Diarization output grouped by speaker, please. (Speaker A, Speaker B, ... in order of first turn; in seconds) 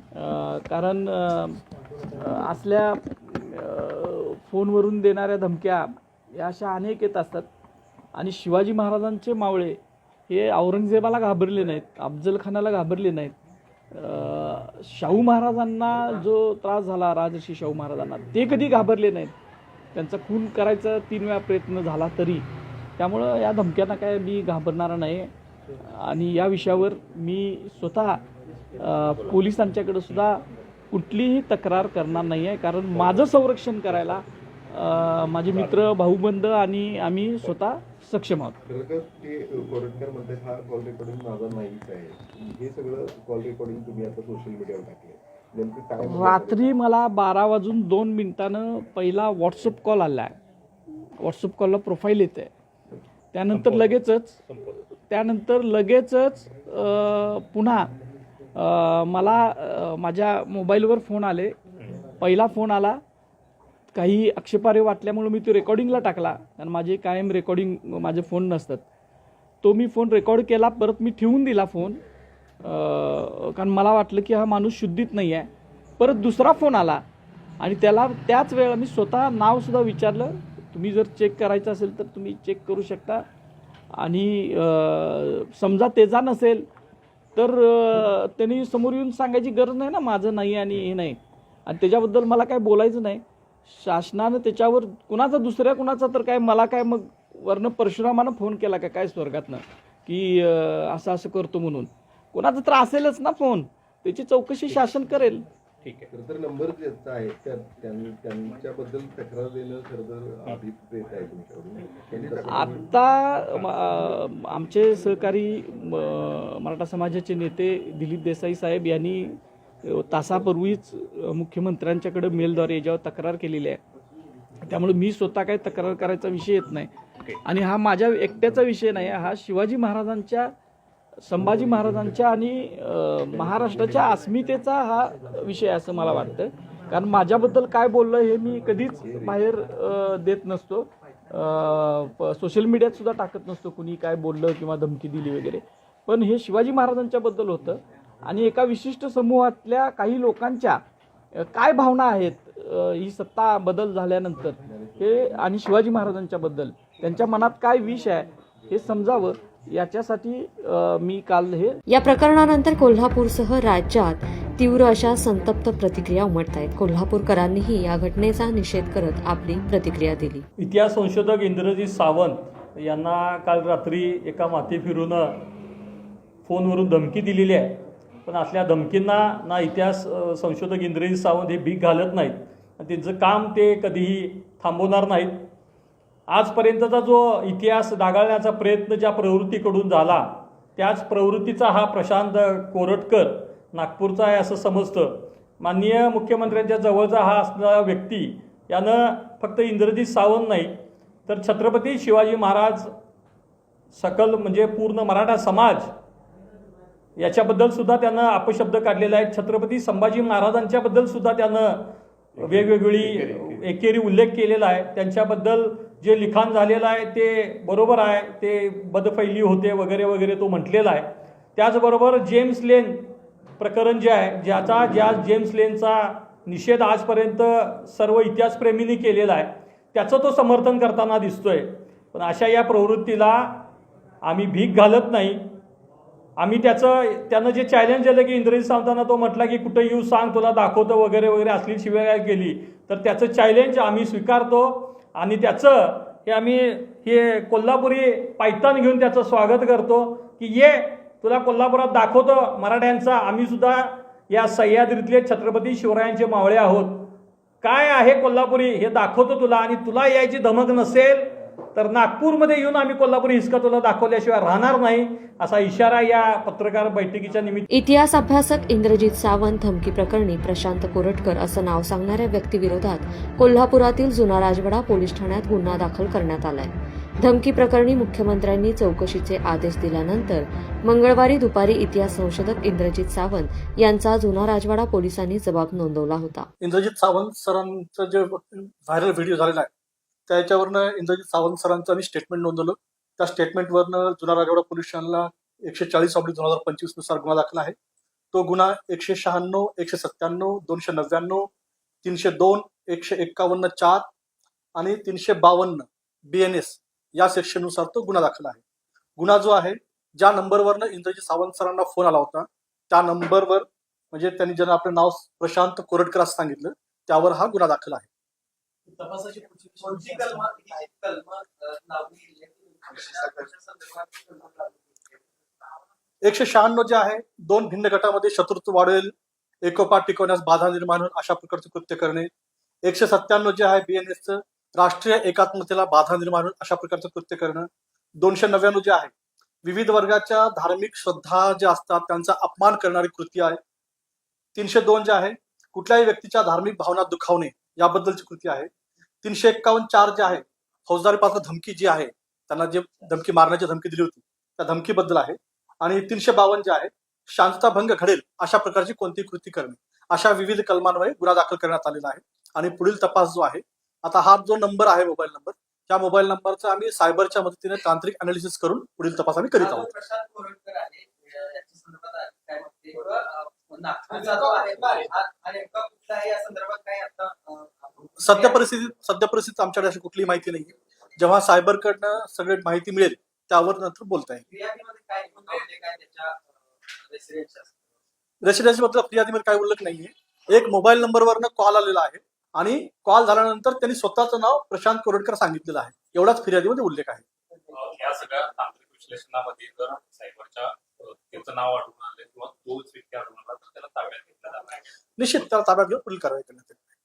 Speaker A: 0.1-1.6, 2.1-7.5, 8.2-9.8, 10.3-13.4, 13.9-19.3, 19.9-22.5, 23.0-28.2, 28.8-38.6, 46.0-50.4, 51.2-52.5, 53.3-57.9, 58.5-61.5, 62.2-63.0, 63.9-68.8, 69.6-72.0, 72.6-77.0, 77.6-83.2, 84.0-86.7, 87.4-105.5, 112.5-123.8, 124.6-126.9, 127.5-130.5, 131.2-150.8, 151.3-161.8
Speaker B: 38.7-46.7, 106.1-112.9, 131.5-132.1, 133.4-134.1, 136.1-136.4, 139.0-139.4, 154.6-155.6
Speaker C: 53.5-54.8, 105.8-106.1, 212.4-213.6, 397.7-404.9
Speaker D: 161.9-170.5, 267.7-286.5
Speaker E: 170.6-175.4, 176.4-185.5, 186.3-200.8, 201.3-202.9, 203.9-205.9, 207.2-223.1, 223.6-233.7, 234.2-235.4, 236.4-267.7
Speaker F: 286.6-289.7, 290.3-297.8, 298.3-301.5, 302.0-304.1, 304.8-308.6, 309.2-318.1, 326.2-329.1, 329.6-332.3, 332.9-337.7, 338.2-339.1, 339.6-343.6, 344.6-348.7, 349.2-369.9, 378.2-384.4, 388.4-397.2, 405.2-406.8
Speaker G: 319.0-325.2, 369.6-378.6, 384.5-386.4, 386.9-387.8